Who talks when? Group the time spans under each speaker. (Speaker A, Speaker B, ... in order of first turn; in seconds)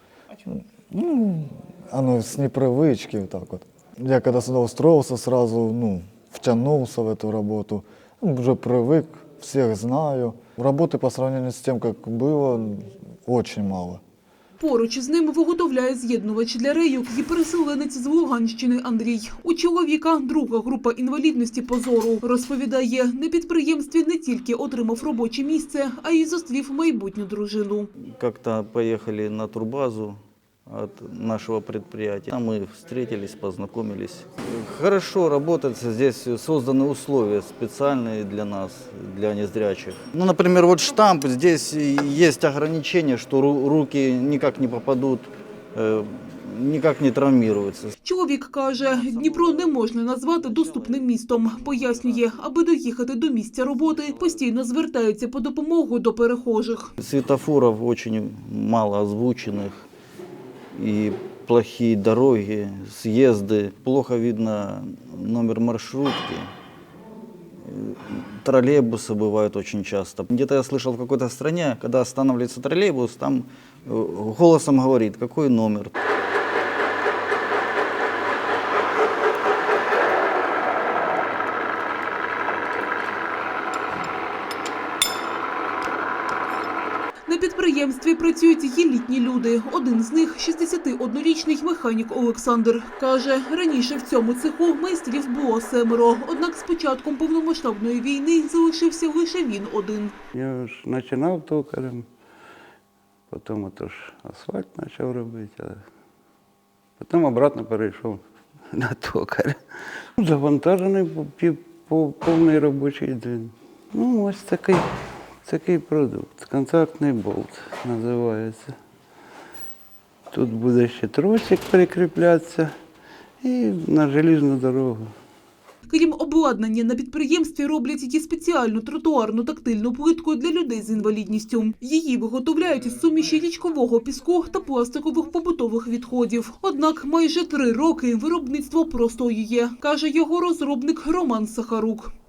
Speaker A: 0.4-14.0
Speaker B: 14.6-27.9, 48.0-56.9, 87.3-100.2, 125.9-142.1
Speaker C: 28.0-48.0, 57.0-59.9, 60.7-66.5, 67.6-76.0
Speaker D: 100.3-102.1, 103.3-105.8, 107.0-114.8, 115.4-118.8, 120.3-122.7, 123.4-125.1